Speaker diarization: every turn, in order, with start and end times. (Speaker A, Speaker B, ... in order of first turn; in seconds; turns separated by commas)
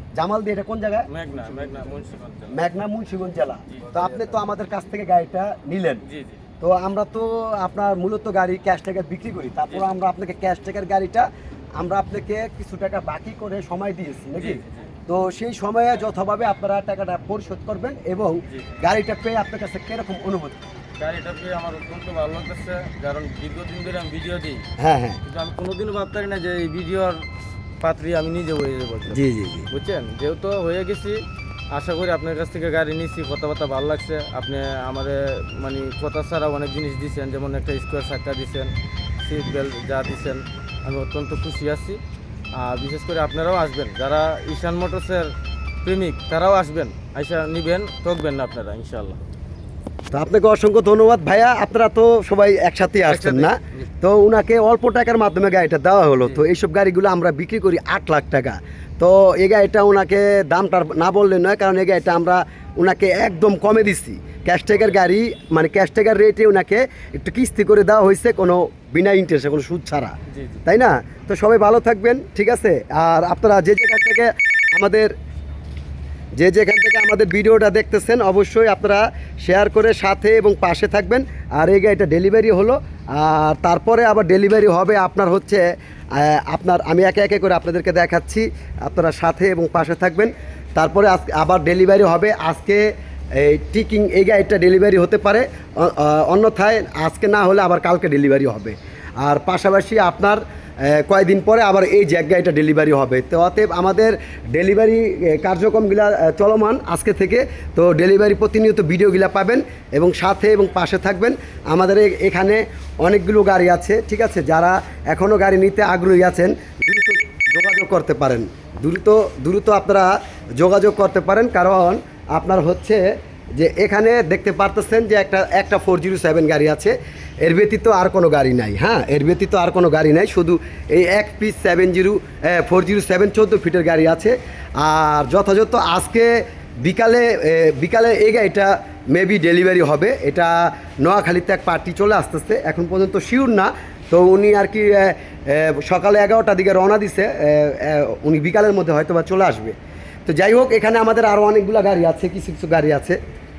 Speaker A: 0.2-1.1, Speaker B: 1.1-2.7, Speaker A: 2.5-6.0, Speaker B: 3.7-4.4, Speaker B: 6.0-6.4, Speaker A: 6.6-20.6, Speaker B: 14.4-14.9, Speaker B: 21.0-24.7, Speaker A: 24.8-25.2, Speaker B: 25.2-27.3, Speaker B: 27.8-42.0, Speaker A: 29.1-29.7, Speaker B: 42.5-49.2, Speaker A: 50.1-70.1, Speaker B: 53.1-53.9, Speaker B: 70.3-70.6, Speaker A: 70.7-75.1, Speaker A: 76.4-153.2